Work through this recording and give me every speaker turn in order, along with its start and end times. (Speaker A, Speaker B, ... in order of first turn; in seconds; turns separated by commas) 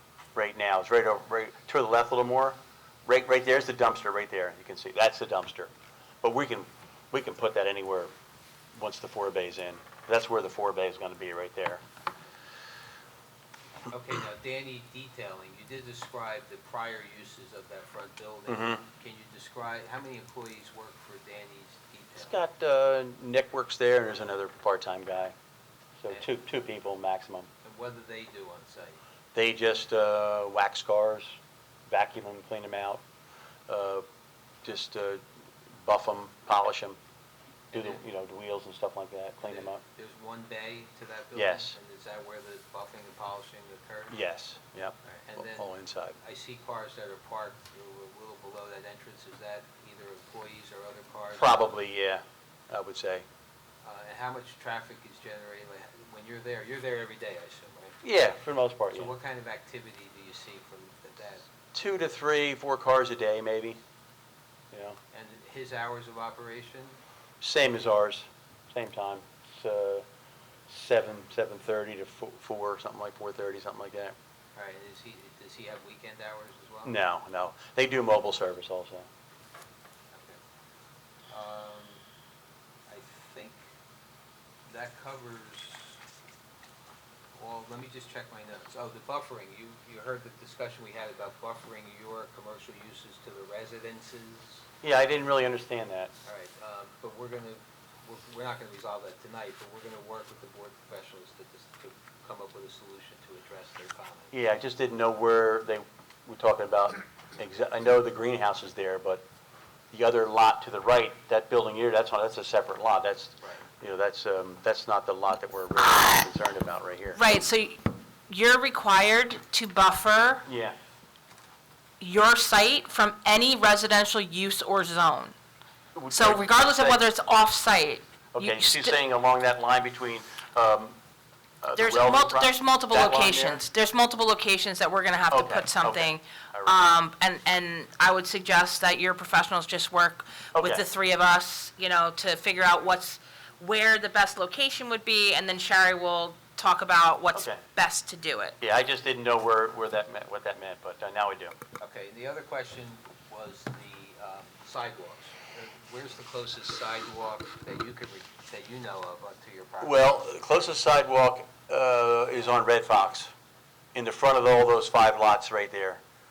Speaker A: 0.3-5.7, Speaker A: 6.2-8.1, Speaker A: 8.7-11.8, Speaker B: 13.9-22.4, Speaker A: 18.5-18.8, Speaker A: 22.2-25.3, Speaker A: 26.0-27.5, Speaker B: 27.6-29.0, Speaker A: 29.3-31.4, Speaker A: 31.9-33.0, Speaker A: 33.7-34.0, Speaker A: 34.6-35.2, Speaker A: 35.8-37.0, Speaker B: 37.7-38.0, Speaker A: 37.7-39.8, Speaker B: 39.4-44.2, Speaker A: 41.3-41.7, Speaker A: 44.1-46.2, Speaker B: 45.0-51.7, Speaker A: 51.4-53.2, Speaker B: 53.8-58.0, Speaker A: 58.0-59.1, Speaker B: 58.9-61.5, Speaker A: 61.7-63.8, Speaker A: 64.7-65.0, Speaker B: 65.1-67.0, Speaker A: 67.4-70.0, Speaker A: 70.7-74.1, Speaker B: 74.5-77.0, Speaker A: 76.8-79.0, Speaker B: 80.1-80.4, Speaker B: 81.3-82.0, Speaker B: 82.9-83.6, Speaker B: 84.7-86.0, Speaker B: 87.3-94.7, Speaker A: 94.8-96.1, Speaker B: 96.2-104.3, Speaker A: 104.3-109.2, Speaker A: 109.9-117.2, Speaker B: 113.4-113.7, Speaker C: 117.2-120.4, Speaker A: 120.4-120.8, Speaker C: 122.0-125.3, Speaker A: 125.9-127.0, Speaker C: 126.1-128.9, Speaker A: 128.3-131.0, Speaker A: 131.6-133.6, Speaker C: 131.7-148.5, Speaker A: 135.3-136.9, Speaker A: 140.5-140.8, Speaker A: 147.3-147.6, Speaker A: 148.6-151.6, Speaker B: 151.8-160.0, Speaker A: 159.8-163.3, Speaker A: 163.9-166.0